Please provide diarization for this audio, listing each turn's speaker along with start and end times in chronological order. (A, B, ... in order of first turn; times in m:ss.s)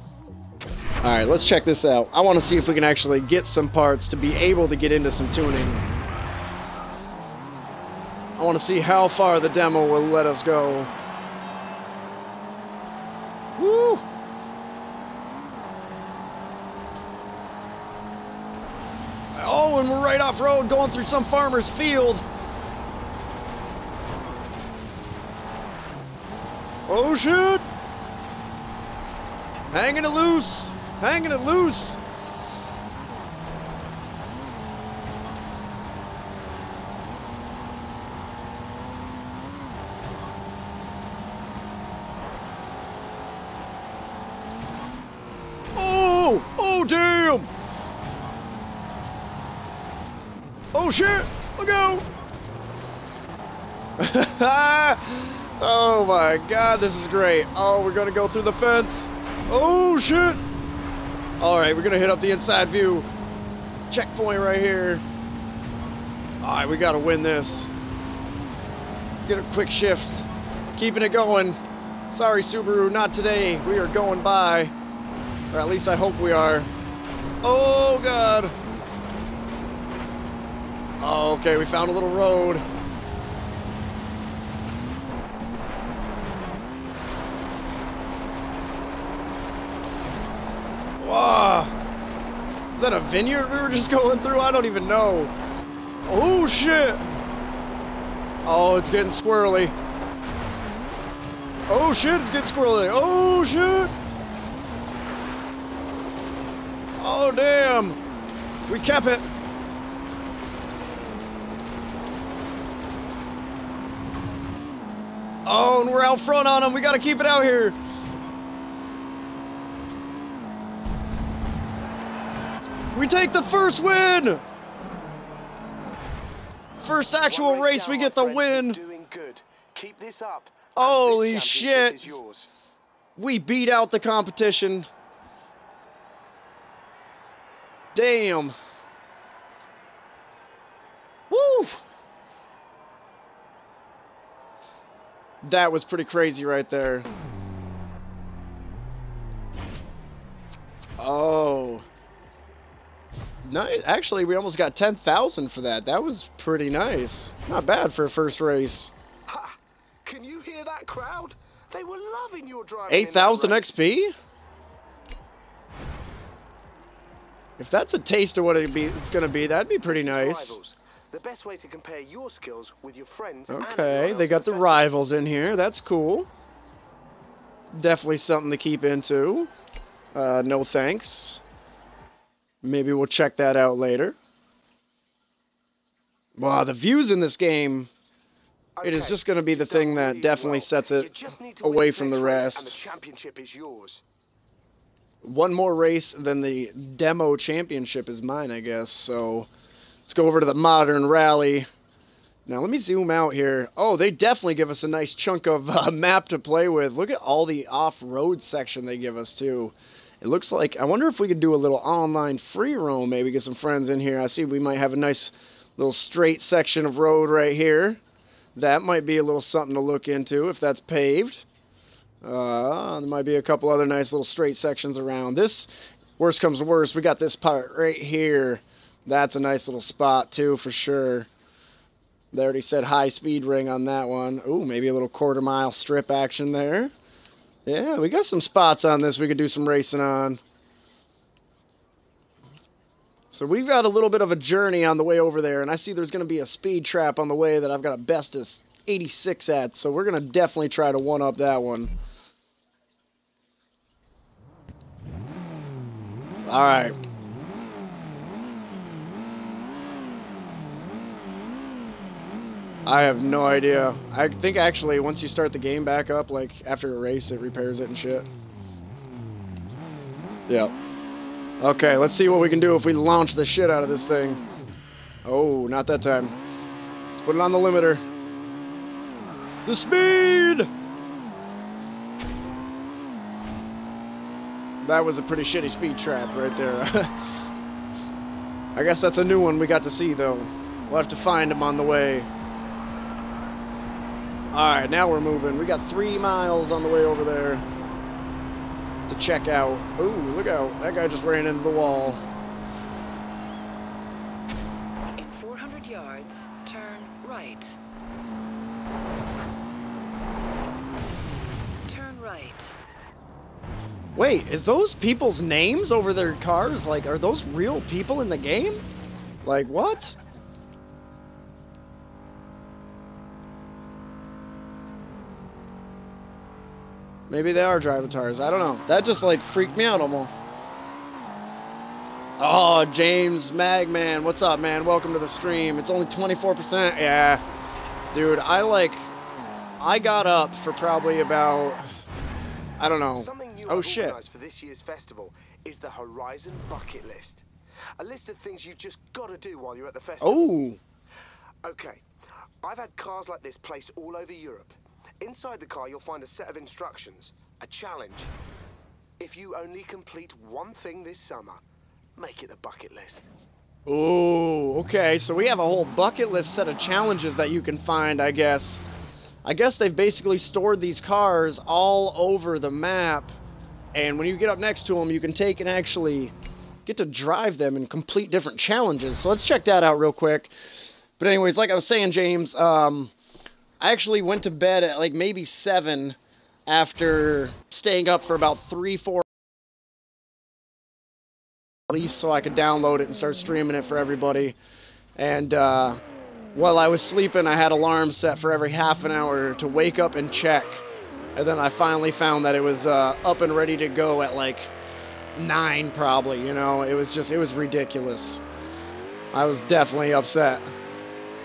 0:01.0-0:05.8 A
0:08.4-0:10.9 A
0:13.6-0:14.0 A
0:19.3-0:22.2 A
0:26.9-0:27.6 A
0:29.7-0:32.0 A
0:45.8-0:47.5 A
0:50.7-0:52.1 A
0:54.0-1:00.4 A
1:01.4-1:03.1 A
1:03.9-1:05.0 A
1:06.4-1:07.7 A
1:09.2-1:14.7 A
1:15.5-1:16.7 A
1:17.4-1:18.5 A
1:21.0-1:22.6 A
1:31.0-1:31.7 A
1:32.8-1:35.3 A
1:36.1-1:37.1 A
1:38.4-1:39.8 A
1:41.7-1:43.9 A
1:47.0-1:48.0 A
1:48.7-1:49.3 A
1:55.5-1:57.8 A
2:02.9-2:04.4 A
2:06.8-2:08.8 A
2:07.2-2:12.5 B
2:10.8-2:12.0 A
2:13.2-2:14.9 A
2:17.9-2:18.6 A
2:21.3-2:21.8 A
2:25.4-2:27.1 A
2:31.0-2:31.8 A
2:33.4-2:38.9 A
2:39.3-2:43.8 B
2:42.9-2:44.1 A
2:47.6-2:50.6 A
2:49.9-2:54.9 B
2:53.5-2:56.3 A
2:57.7-2:59.5 A
3:00.1-3:01.4 A
3:02.6-3:04.2 A
3:06.4-3:07.9 A
3:08.8-3:14.0 B
3:08.8-3:11.1 A
3:11.6-3:12.8 A
3:15.2-3:19.5 A
3:20.1-3:21.7 A
3:22.5-3:38.0 A
3:38.6-3:41.4 A
3:42.2-3:51.3 A
3:52.3-3:56.9 A
3:57.7-4:00.4 A
4:03.3-4:11.9 A
4:16.5-4:17.0 A
4:22.9-4:28.3 A
4:31.6-4:34.4 A
4:35.2-4:36.4 A
4:37.2-4:38.0 A
4:39.7-4:40.7 A
4:44.8-4:47.1 A
4:48.8-4:52.3 A
4:54.5-4:57.6 A
4:59.1-5:02.2 A
5:05.2-5:07.8 C
5:11.9-5:12.8 C
5:14.2-5:18.8 A
5:19.4-5:20.2 A
5:27.3-5:30.3 A
5:32.4-5:37.4 A
5:38.1-5:39.1 A
5:39.8-5:41.9 A
5:42.8-5:44.2 A
5:43.1-5:47.5 B
5:48.0-5:50.5 B
5:50.2-5:50.8 A
5:51.6-5:52.0 B
5:52.6-5:58.3 B
5:59.2-6:01.6 B
6:02.2-6:03.3 B
6:03.9-6:08.8 A
6:09.4-6:13.3 A
6:13.9-6:16.3 A
6:16.9-6:20.5 A
6:21.2-6:23.1 A
6:23.8-6:29.2 A
6:31.9-6:34.6 A
6:35.2-6:36.0 A
6:36.6-6:40.8 A
6:41.4-6:44.7 A
6:45.4-6:48.4 A
6:49.3-6:50.7 A